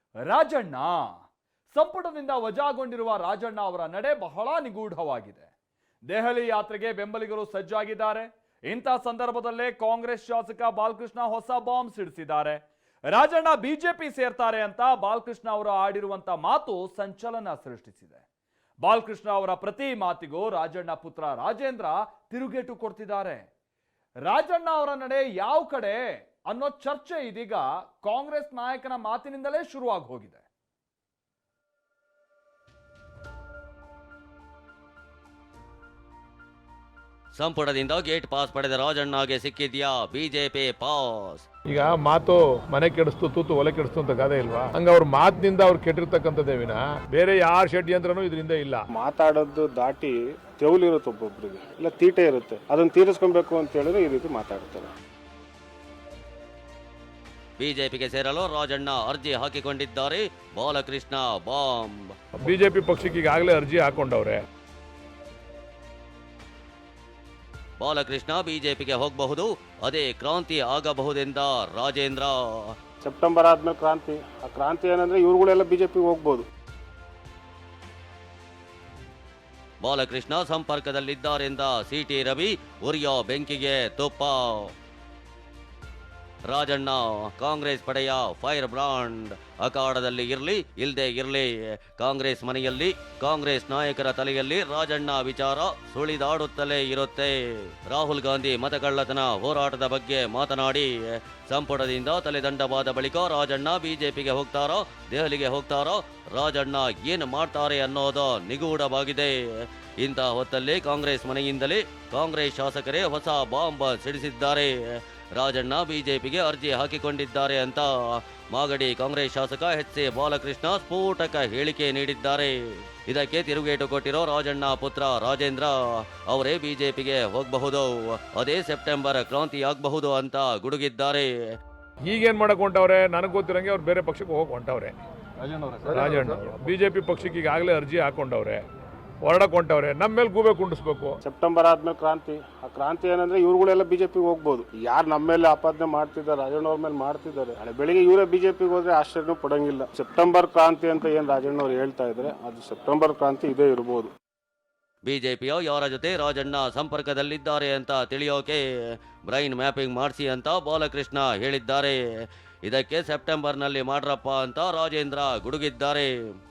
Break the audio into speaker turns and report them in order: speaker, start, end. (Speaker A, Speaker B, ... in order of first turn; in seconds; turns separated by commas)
Speaker A: 0.2-1.2, Speaker A: 1.7-5.5, Speaker A: 6.1-18.2, Speaker A: 18.8-23.4, Speaker A: 24.2-30.4, Speaker B: 37.3-41.4, Speaker C: 41.7-48.9, Speaker D: 49.0-54.8, Speaker B: 57.6-62.1, Speaker C: 62.4-64.4, Speaker B: 67.8-72.7, Speaker D: 73.0-76.4, Speaker B: 79.8-84.7, Speaker B: 86.5-122.5, Speaker B: 123.0-131.3, Speaker C: 132.1-134.9, Speaker C: 135.8-138.6, Speaker C: 139.2-141.2, Speaker D: 141.3-154.1, Speaker B: 155.0-158.6, Speaker B: 159.2-162.0, Speaker B: 162.6-166.1